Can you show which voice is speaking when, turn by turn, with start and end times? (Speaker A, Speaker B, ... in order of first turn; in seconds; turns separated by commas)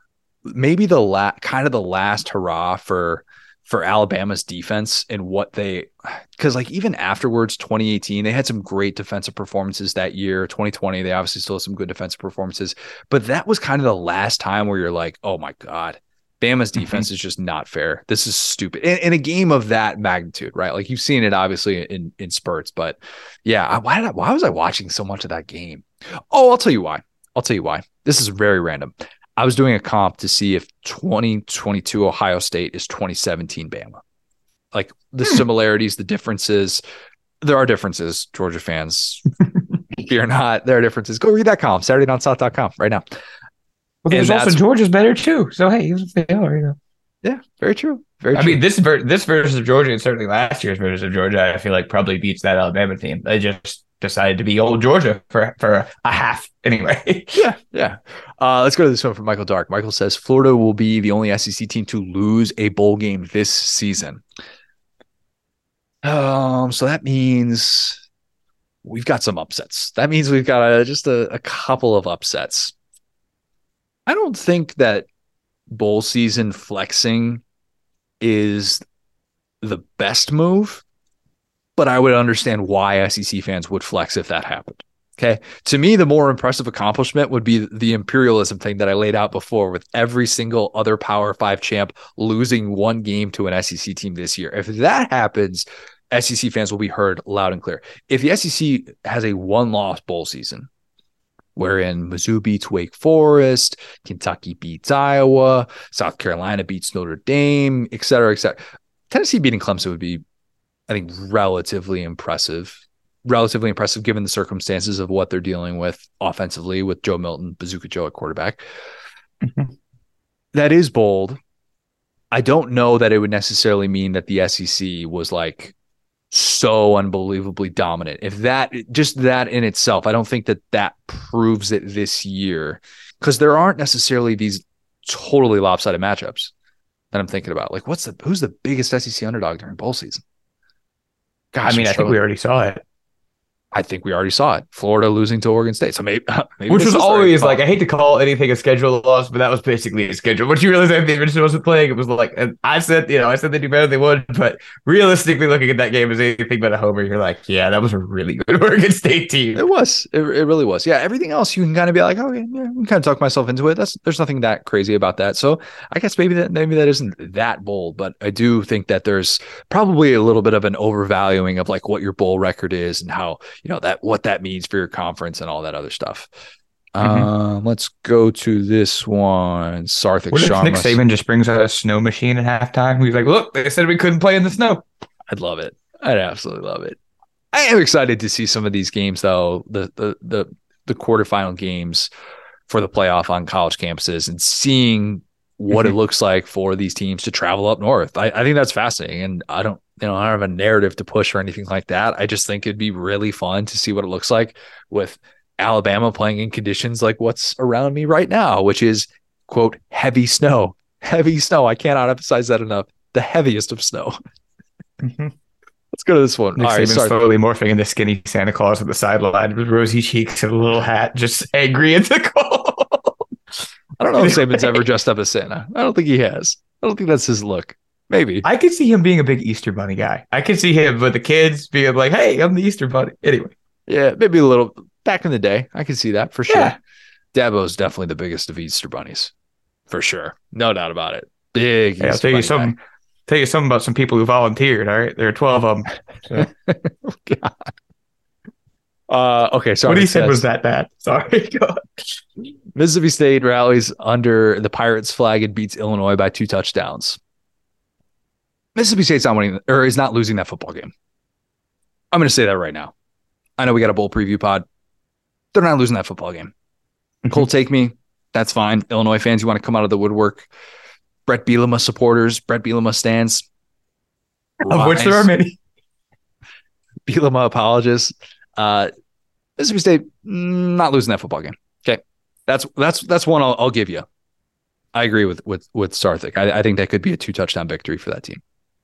Speaker A: 0.4-34.0, Speaker A: 34.7-36.8, Speaker A: 37.4-39.2, Speaker A: 39.9-43.0, Speaker B: 44.0-46.8, Speaker A: 44.1-44.6, Speaker A: 47.2-48.6, Speaker B: 48.3-57.4, Speaker A: 57.3-64.2, Speaker A: 66.0-68.0, Speaker A: 68.8-72.7, Speaker A: 74.1-75.0, Speaker A: 75.7-77.4, Speaker A: 78.2-78.8, Speaker A: 79.6-80.8, Speaker A: 81.8-100.7, Speaker A: 101.5-110.2, Speaker A: 110.9-118.6, Speaker B: 119.4-119.7, Speaker A: 120.5-121.4, Speaker A: 122.3-125.7, Speaker A: 126.3-136.5, Speaker A: 137.1-140.2, Speaker A: 141.5-142.2, Speaker B: 141.7-142.8, Speaker A: 143.7-147.6, Speaker B: 146.7-159.6, Speaker A: 159.5-176.3, Speaker A: 176.9-181.0, Speaker B: 177.0-177.3, Speaker B: 180.3-184.8, Speaker A: 185.3-187.0, Speaker A: 187.5-192.1, Speaker A: 192.7-214.2, Speaker B: 215.0-215.3, Speaker A: 215.9-217.2, Speaker B: 216.6-223.2, Speaker A: 224.0-228.5, Speaker B: 224.2-224.7, Speaker B: 228.4-233.5, Speaker A: 233.9-236.8, Speaker B: 236.5-236.8, Speaker A: 237.3-239.3, Speaker A: 239.9-242.7, Speaker B: 242.0-246.5, Speaker A: 246.4-247.6, Speaker A: 249.1-250.4, Speaker B: 249.8-252.2, Speaker A: 252.7-257.2, Speaker A: 258.8-260.9, Speaker A: 262.1-262.9, Speaker A: 263.6-264.6, Speaker A: 265.5-266.5, Speaker A: 267.3-270.5, Speaker A: 271.3-273.4, Speaker A: 274.6-275.3, Speaker B: 274.6-275.6, Speaker A: 277.1-278.9, Speaker A: 279.6-284.1, Speaker A: 284.9-288.4